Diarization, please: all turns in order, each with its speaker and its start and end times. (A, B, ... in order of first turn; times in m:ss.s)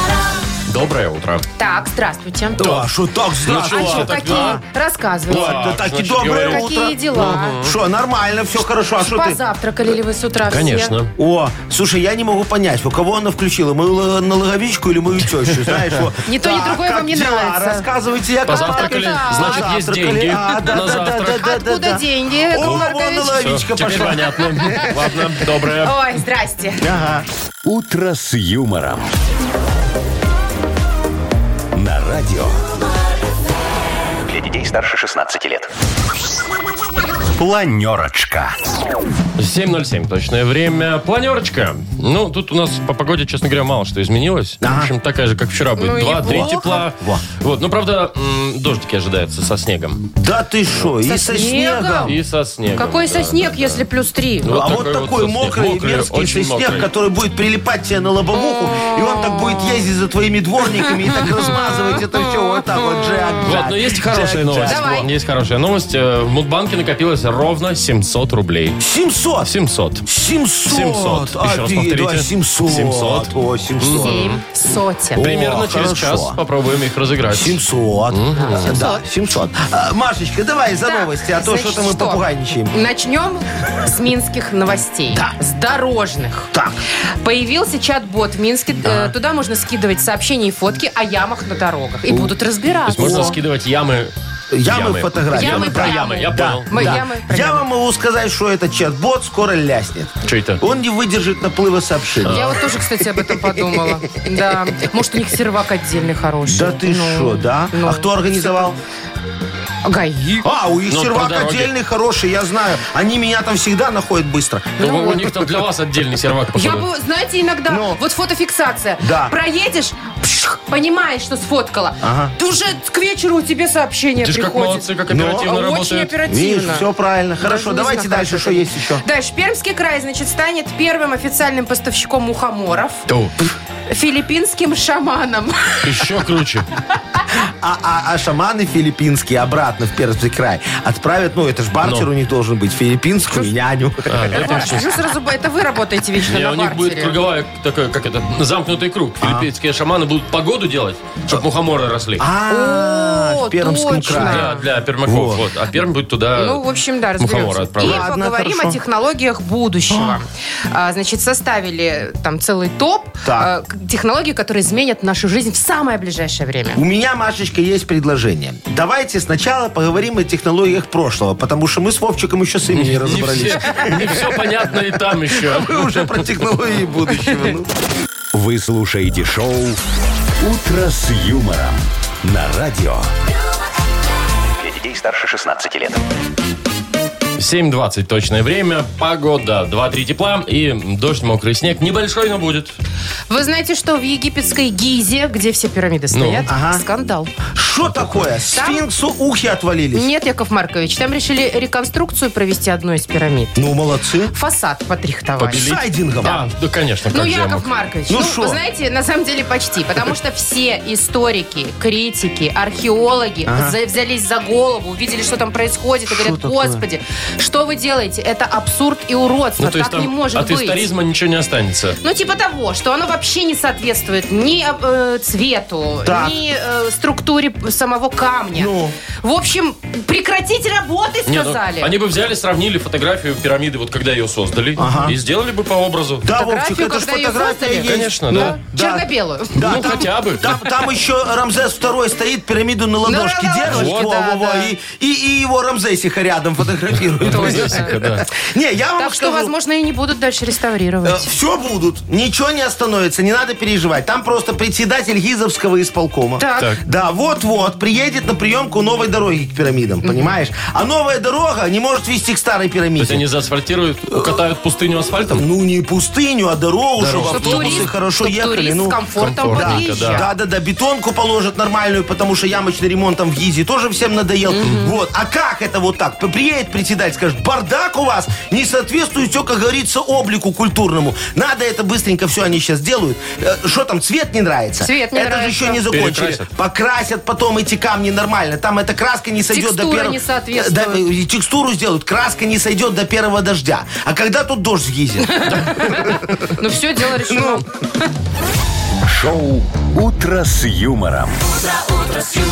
0:00.7-0:01.4 A
0:01.6-0:02.8 B
0:02.6-0:04.6 C
0:02.6-0:02.9 A
0:03.4-0:04.6 A
0:03.6-0:05.8 B
0:05.3-0:07.8 A
0:05.3-0:09.4 C
0:06.4-0:07.6 B
0:09.0-0:10.9 B
0:10.5-0:11.1 A
0:11.2-0:24.9 C
0:16.2-0:17.8 B
0:18.4-0:21.5 A
0:18.5-0:19.7 B
0:21.3-0:23.4 B
0:22.6-0:26.0 A
0:25.8-0:26.8 B
0:26.8-0:27.2 C
0:27.6-0:29.1 D
0:31.7-0:32.6 D
0:34.4-0:35.6 D
0:37.4-0:38.6 D
0:39.4-0:50.1 A
0:44.6-0:44.9 C
0:45.8-0:46.8 B
0:46.2-0:47.2 C
0:50.2-0:52.2 C
0:51.0-0:52.2 B
0:52.0-0:53.8 A
0:52.8-0:54.6 B
0:54.4-0:56.9 A
0:54.4-1:05.1 C
0:58.3-0:59.8 B
1:01.4-1:02.0 B
1:03.0-1:03.4 B
1:03.4-1:08.8 A
1:04.6-1:05.1 B
1:08.8-1:09.5 C
1:09.4-1:10.0 A
1:10.0-1:14.3 C
1:10.7-1:14.4 A
1:13.9-1:15.2 B
1:15.1-1:16.4 C
1:15.2-1:18.7 A
1:17.3-1:22.7 C
1:18.3-1:19.0 B
1:20.8-1:26.5 B
1:25.1-1:25.4 C
1:26.5-1:26.8 C
1:27.2-1:33.3 B
1:28.8-1:29.1 C
1:32.1-1:32.3 C
1:32.9-1:34.1 A
1:32.9-1:33.4 C
1:34.5-1:42.4 C
1:34.6-1:37.0 A
1:35.3-1:37.6 B
1:40.2-1:40.6 A
1:42.2-1:42.6 A
1:42.2-1:48.7 B
1:43.2-1:44.0 C
1:46.5-1:48.8 C
1:49.8-1:50.4 B
1:50.4-1:55.0 C
1:50.9-1:51.7 A
1:54.8-1:56.9 A
1:54.8-1:55.2 B
1:56.5-2:06.8 B
1:57.7-1:58.0 C
1:59.0-1:59.3 C
2:02.0-2:02.3 C
2:04.2-2:06.1 A
2:05.1-2:05.5 C
2:06.2-2:09.0 C
2:07.4-2:13.0 B
2:13.1-2:13.4 A
2:13.9-2:16.0 B
2:15.8-2:16.7 A
2:17.3-2:24.6 C
2:21.8-2:22.1 A
2:24.0-2:25.1 A
2:24.3-2:27.2 B
2:26.3-2:32.3 A
2:29.2-2:29.5 C
2:32.2-2:34.5 C
2:32.5-2:34.6 B
2:34.1-2:36.6 A
2:35.0-2:35.4 C
2:36.3-2:46.8 B
2:37.2-2:38.0 A
2:37.8-2:38.8 C
2:39.9-2:40.2 C
2:43.2-2:43.5 C
2:46.7-2:54.3 C
2:52.7-2:56.2 A
2:55.4-2:57.7 C
2:58.3-2:59.8 D
3:00.4-3:03.1 D
3:04.8-3:05.9 D
3:07.4-3:12.7 A
3:13.3-3:17.4 B
3:16.1-3:16.5 A
3:16.5-3:16.8 C
3:17.5-3:20.1 C
3:17.8-3:18.2 A
3:18.5-3:18.8 B
3:19.9-3:23.6 B
3:23.6-3:24.3 C
3:24.3-3:25.7 B
3:25.4-3:27.7 A
3:25.5-3:26.4 C
3:27.1-3:40.8 B
3:28.1-3:28.6 C
3:33.4-3:33.7 C
3:36.1-3:36.8 C
3:39.6-3:42.0 A
3:42.0-3:51.9 B
3:46.0-3:46.3 C
3:48.5-3:49.0 C
3:51.2-3:56.2 A
3:54.8-3:55.2 C
3:56.2-4:09.5 C
3:56.3-3:59.8 B
3:57.8-3:58.6 A
3:59.6-4:00.8 A
4:03.0-4:04.7 B
4:03.7-4:04.1 A
4:07.2-4:08.2 A
4:07.2-4:07.9 B
4:09.0-4:11.2 B
4:11.0-4:23.2 C
4:16.4-4:16.8 B
4:23.0-4:25.4 A
4:25.3-4:56.6 C
4:27.0-4:27.9 A
4:27.2-4:30.3 B
4:29.2-4:30.2 A
4:34.5-4:35.0 B
4:44.8-4:45.8 B
4:45.8-4:46.5 A
4:49.5-4:51.0 B
4:55.2-4:58.1 B
4:57.3-4:57.6 C
4:59.0-5:02.2 D